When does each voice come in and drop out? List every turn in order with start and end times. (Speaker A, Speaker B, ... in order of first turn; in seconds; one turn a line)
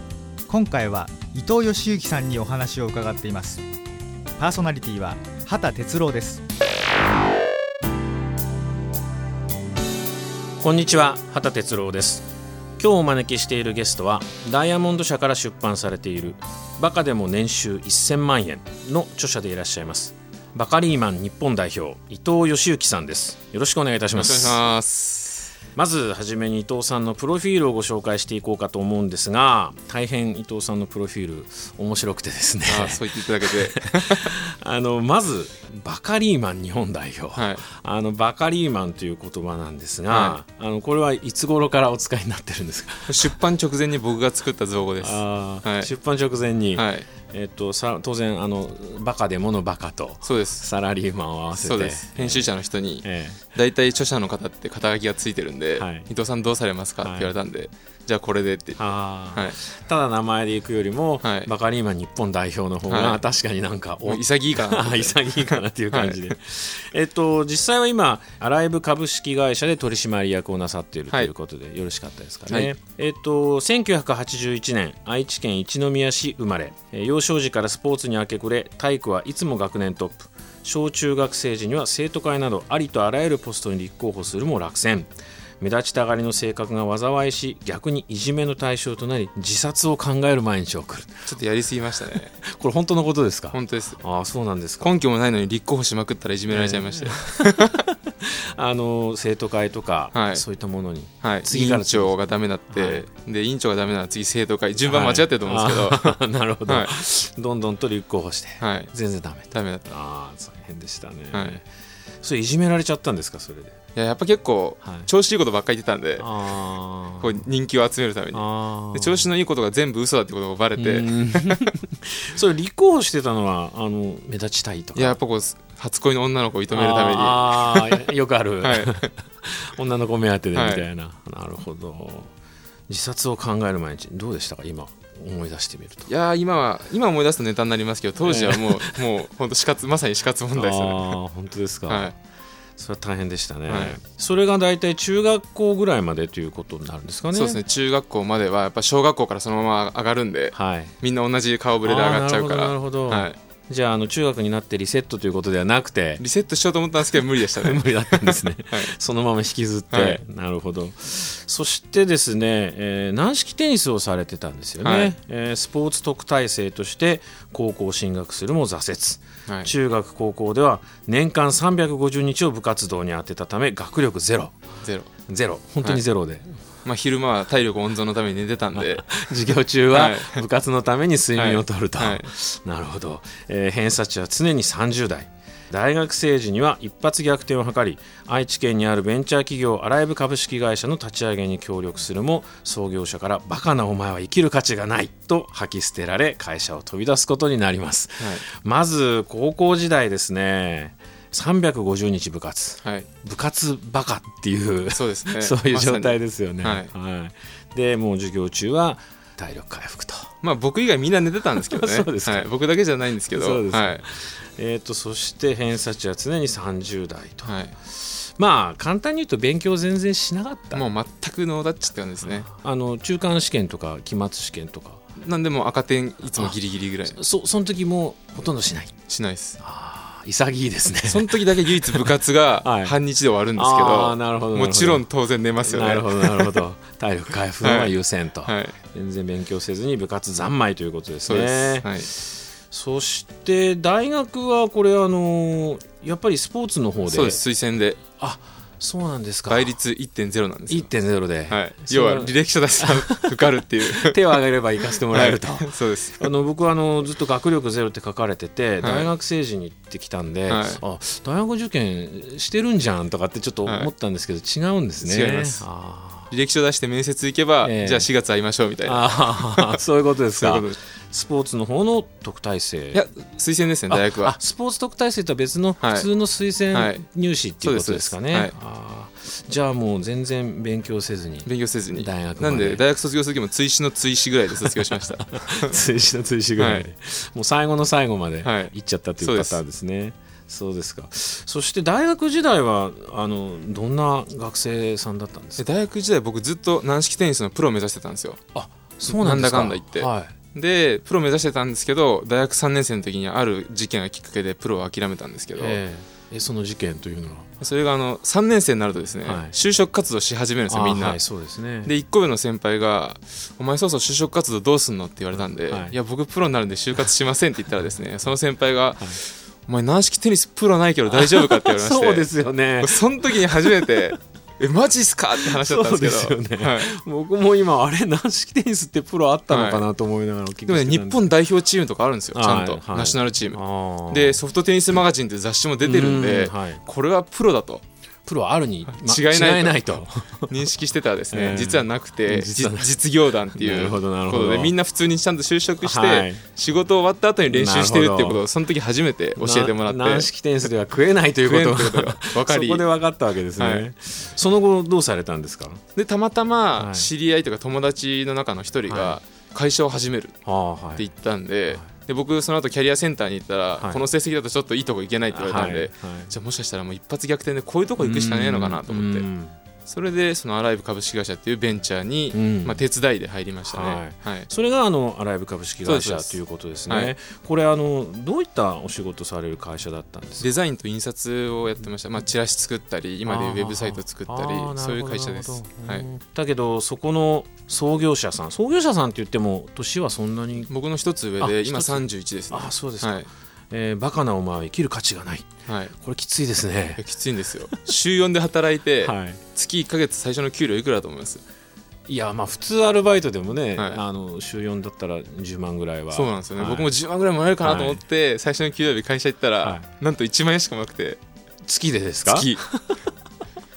Speaker A: 0.5-3.6
Speaker A: 4.4-6.4
Speaker B: 10.6-24.6
Speaker C: 24.1-25.5
Speaker B: 25.8-43.3
Speaker C: 32.7-34.3
Speaker C: 37.3-37.6
Speaker C: 40.1-40.4
Speaker C: 43.1-45.9
Speaker B: 45.0-52.5
Speaker C: 46.8-47.0
Speaker C: 50.2-50.6
Speaker C: 51.5-58.8
Speaker B: 53.0-53.4
Speaker B: 55.8-56.0
Speaker B: 57.0-57.3
Speaker B: 58.8-91.3
Speaker C: 61.2-61.5
Speaker C: 62.9-63.2
Speaker C: 64.0-66.3
Speaker C: 72.5-72.7
Speaker C: 91.3-92.3
Speaker B: 92.4-94.9
Speaker C: 93.5-94.0
Speaker C: 94.8-97.8
Speaker B: 96.5-102.2
Speaker C: 100.1-100.4
Speaker C: 101.2-106.9
Speaker B: 102.7-103.0
Speaker B: 104.8-111.7
Speaker C: 108.6-108.9
Speaker C: 109.5-109.9
Speaker C: 111.3-111.6
Speaker B: 112.2-113.8
Speaker C: 113.9-116.3
Speaker B: 114.8-115.1
Speaker B: 116.2-117.4
Speaker C: 117.2-121.7
Speaker B: 118.3-119.3
Speaker B: 120.8-125.2
Speaker C: 125.0-128.0
Speaker B: 126.7-132.3
Speaker C: 128.6-129.1
Speaker C: 130.5-130.8
Speaker B: 132.9-136.1
Speaker C: 136.1-141.2
Speaker B: 138.2-139.0
Speaker B: 140.5-142.1
Speaker C: 141.9-142.1
Speaker B: 142.8-147.6
Speaker C: 143.7-144.0
Speaker C: 147.3-153.4
Speaker B: 150.5-150.9
Speaker B: 151.8-156.2
Speaker C: 156.2-158.9
Speaker B: 157.6-174.6
Speaker C: 159.9-160.2
Speaker C: 164.8-165.1
Speaker C: 169.5-169.7
Speaker C: 174.8-175.1
Speaker B: 175.3-176.6
Speaker C: 176.8-180.4
Speaker B: 178.7-210.3
Speaker C: 181.3-182.3
Speaker C: 202.8-203.1
Speaker C: 204.9-206.9
Speaker C: 210.4-214.0
Speaker B: 211.6-212.5
Speaker B: 213.3-220.8
Speaker C: 217.4-217.7
Speaker C: 220.7-222.5
Speaker B: 222.4-225.0
Speaker C: 225.2-227.2
Speaker B: 227.1-229.0
Speaker C: 229.1-229.6
Speaker B: 229.6-232.1
Speaker C: 231.1-236.6
Speaker B: 232.6-232.9
Speaker B: 233.6-235.0
Speaker B: 235.6-247.4
Speaker C: 237.6-238.7
Speaker C: 241.2-242.1
Speaker C: 247.1-248.0
Speaker B: 248.1-249.7
Speaker C: 249.5-250.9
Speaker B: 250.7-266.3
Speaker C: 251.5-254.2
Speaker C: 254.9-256.3
Speaker C: 258.8-259.1
Speaker C: 260.5-260.8
Speaker C: 265.0-265.6
Speaker C: 266.3-269.8
Speaker B: 267.6-268.1
Speaker B: 268.8-273.0
Speaker C: 270.4-270.8
Speaker C: 272.9-274.3
Speaker B: 273.9-282.8
Speaker C: 275.8-276.1
Speaker C: 276.7-277.1
Speaker C: 277.6-278.5
Speaker C: 281.4-285.7
Speaker B: 285.3-295.7
Speaker C: 286.6-286.9
Speaker C: 288.4-289.6
Speaker C: 295.6-298.4
Speaker B: 298.5-300.3
Speaker C: 299.0-305.8
Speaker B: 305.6-307.5
Speaker C: 307.6-311.2
Speaker B: 309.2-309.5
Speaker B: 310.7-311.9
Speaker C: 311.8-322.3
Speaker B: 315.5-315.9
Speaker B: 321.1-324.1
Speaker C: 322.8-326.9
Speaker B: 325.4-331.2
Speaker C: 329.5-329.8
Speaker C: 330.7-337.8
Speaker B: 332.3-334.4
Speaker B: 335.8-336.8
Speaker B: 338.2-340.5
Speaker C: 338.9-350.3
Speaker B: 341.3-342.9
Speaker B: 343.5-344.7
Speaker B: 345.8-346.4
Speaker B: 347.5-348.4
Speaker B: 349.4-355.8
Speaker C: 351.4-352.8
Speaker C: 353.6-353.8
Speaker C: 355.9-360.4
Speaker B: 356.8-357.1
Speaker B: 358.9-359.2
Speaker B: 360.4-361.1
Speaker C: 361.0-369.3
Speaker B: 365.3-366.3
Speaker B: 368.0-369.6
Speaker C: 369.9-374.5
Speaker B: 372.3-372.8
Speaker B: 373.6-380.5
Speaker C: 375.8-377.1
Speaker C: 380.4-386.1
Speaker B: 383.2-390.7
Speaker C: 390.7-393.3
Speaker B: 391.4-397.0
Speaker C: 395.7-395.9
Speaker C: 397.0-401.4
Speaker B: 399.0-399.4
Speaker B: 402.1-406.9
Speaker C: 406.1-411.2
Speaker B: 407.6-408.0
Speaker B: 411.6-413.1
Speaker C: 412.2-412.6